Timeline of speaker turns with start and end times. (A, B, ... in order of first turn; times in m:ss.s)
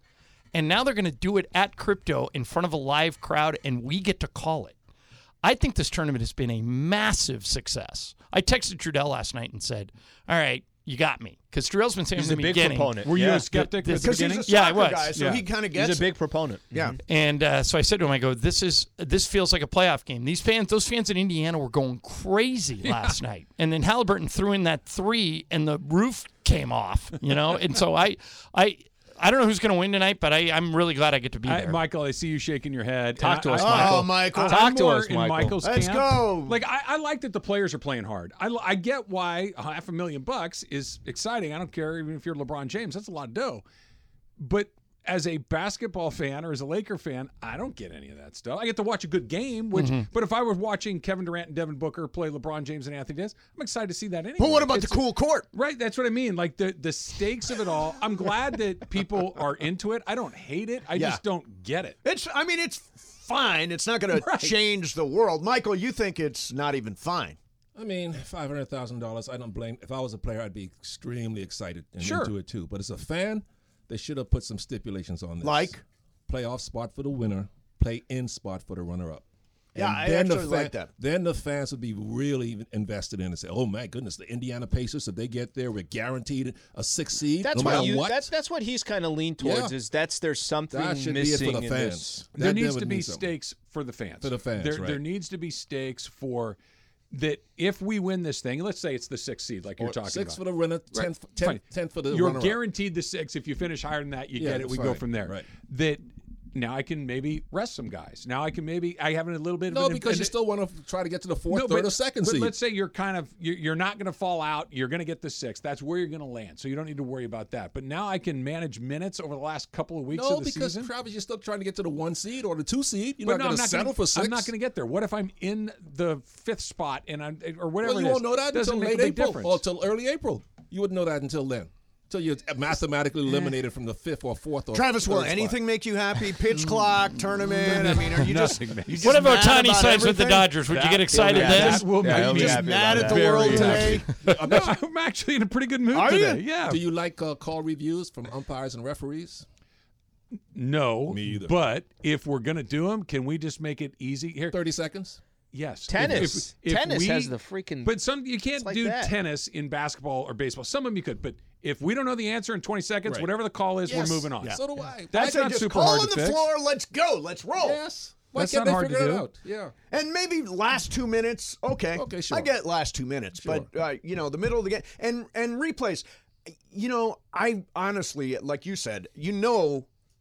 0:00.5-0:04.7 A
0:05.4-0:15.1 A
0:12.2-0:13.5 B
0:13.0-0:14.5 C
0:14.0-0:16.1 D
0:15.1-0:15.5 C
0:15.7-0:17.0 B
0:16.7-0:17.0 D
0:17.1-0:31.8 A
0:31.4-0:43.6 C
0:33.2-0:35.6 B
0:33.6-0:34.8 D
0:35.6-0:36.6 D
0:44.4-1:02.0 C
0:49.7-0:50.1 A
0:54.4-0:55.5 D
1:00.9-1:01.2 D
1:02.0-1:07.4 D
1:04.1-1:04.6 C
1:07.7-1:15.8 E
1:12.0-1:12.3 C
1:15.4-1:15.8 D
1:16.3-1:19.2 E
1:19.7-1:20.9 D
1:19.8-1:28.3 E
1:27.4-1:32.2 B
1:29.4-1:29.8 E
1:30.7-1:33.3 E
1:32.3-1:36.6 C
1:34.2-1:35.0 E
1:37.1-1:50.4 C
1:39.8-1:42.6 E
1:44.3-1:45.5 E
1:49.7-1:52.5 E
1:51.5-2:00.9 C
2:00.1-2:04.5 E
2:03.2-2:09.6 C
2:07.8-2:15.6 E
2:14.7-2:24.1 D
2:17.4-2:19.5 C
2:19.0-2:21.9 A
2:21.1-2:26.8 C
2:21.8-2:23.8 B
2:23.4-2:24.8 E
2:25.9-2:26.4 D
2:26.6-2:29.4 E
2:30.5-2:34.6 C
2:31.1-2:31.6 E
2:34.5-2:35.2 E
2:35.5-2:44.6 C
2:35.9-2:38.1 B
2:36.0-2:36.4 E
2:38.6-2:39.1 B
2:43.0-2:45.4 E
2:44.0-2:44.6 D
2:45.1-2:46.5 C
2:45.1-2:47.8 D
2:47.6-2:49.7 E
2:48.3-2:49.3 C
2:49.9-2:56.0 D
2:51.9-2:52.5 E
2:53.4-2:53.7 E
2:56.7-2:59.8 D